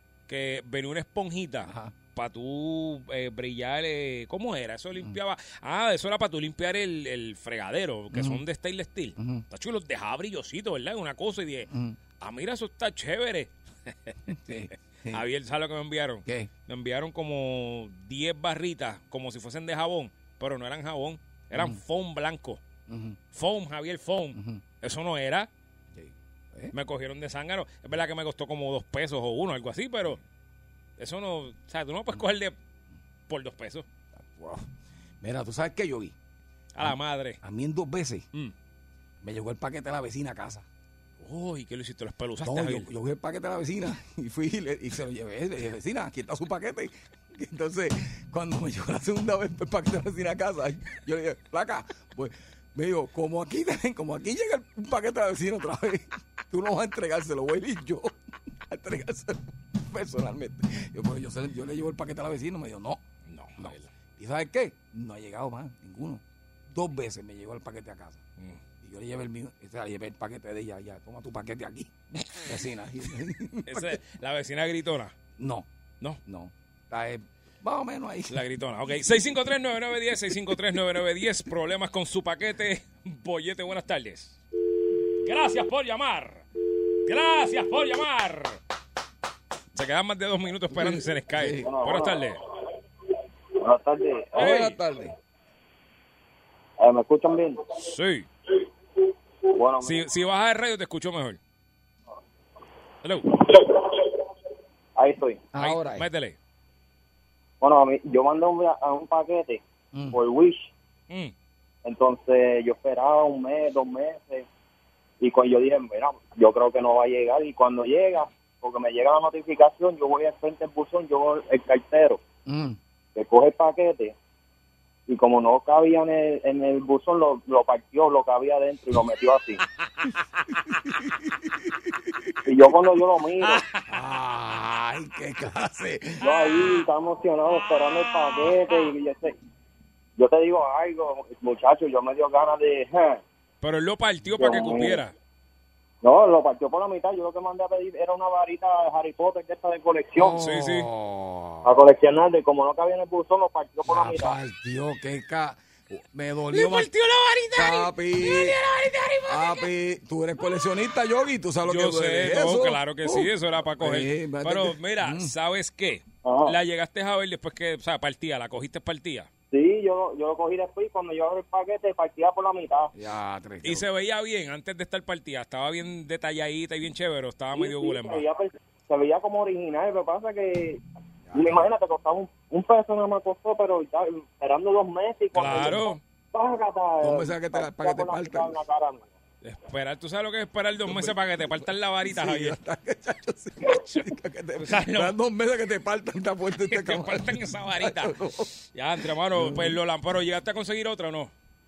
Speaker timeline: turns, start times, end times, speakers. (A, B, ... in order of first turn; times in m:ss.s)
0:00.3-0:14.1 A
0:01.6-0:01.9 B
0:08.1-0:08.4 B
0:09.2-0:09.4 B
0:11.7-0:12.0 B
0:14.3-0:15.2 B
0:15.1-0:22.6 A
0:21.5-0:21.8 B
0:22.9-0:23.2 B
0:23.3-0:25.5 A
0:24.3-0:24.6 B
0:25.9-0:26.7 B
0:26.7-0:30.2 A
0:31.0-0:32.5 A
0:33.3-0:33.9 A
0:34.2-0:34.7 B
0:35.2-0:36.1 B
0:36.7-0:37.4 A
0:36.8-0:38.2 B
0:39.2-0:40.6 B
0:41.2-0:42.9 A
0:42.4-0:58.1 B
0:58.7-1:03.0 B
1:03.3-1:03.9 A
1:03.6-1:08.2 B
1:08.8-1:14.0 B
1:13.7-1:15.1 A
1:15.4-1:15.7 B
1:16.2-1:18.4 B
1:18.3-1:24.4 A
1:25.2-1:26.4 A
1:27.0-1:28.6 A
1:29.7-1:32.4 A
1:30.7-1:31.7 B
1:31.6-1:32.2 C
1:33.6-1:34.4 C
1:34.4-1:34.8 A
1:34.4-1:35.1 B
1:36.8-1:37.6 C
1:37.8-1:38.3 A
1:39.5-1:40.0 C
1:39.8-1:41.4 A
1:43.0-1:43.4 A
1:45.0-1:45.4 C
1:45.5-1:46.0 B
1:45.6-1:46.4 A
1:47.6-1:50.7 C
1:49.9-1:50.2 B
1:51.8-1:54.4 C
1:55.2-2:02.2 C
2:02.4-2:02.8 B
2:03.1-2:04.1 C
2:05.1-2:09.6 C
2:10.7-2:12.2 B
2:12.4-2:13.6 C
2:13.4-2:13.9 A
2:13.9-2:16.7 B
2:16.2-2:19.3 C
2:20.2-2:23.2 C
2:23.6-2:25.1 A
2:24.4-2:25.0 C
2:26.0-2:30.4 C
2:30.2-2:31.8 B
2:30.4-2:30.9 A
2:31.6-2:34.4 C
2:33.9-2:36.9 B
2:36.5-2:39.6 A
2:37.5-2:38.6 B
2:39.2-2:45.3 B
2:41.6-2:49.3 A
2:46.2-2:46.6 C
2:49.5-2:52.9 C
2:52.9-2:53.9 B
2:53.6-2:58.2 A
2:57.5-3:00.8 C
3:01.3-3:01.6 B
3:01.3-3:09.1 C
3:05.3-3:06.0 A
3:07.0-3:08.6 B
3:09.4-3:12.6 A
3:10.9-3:18.5 B
3:13.7-3:14.0 A
3:14.6-3:15.1 A
3:16.6-3:18.2 A
3:18.7-3:21.3 A
3:19.3-3:19.8 B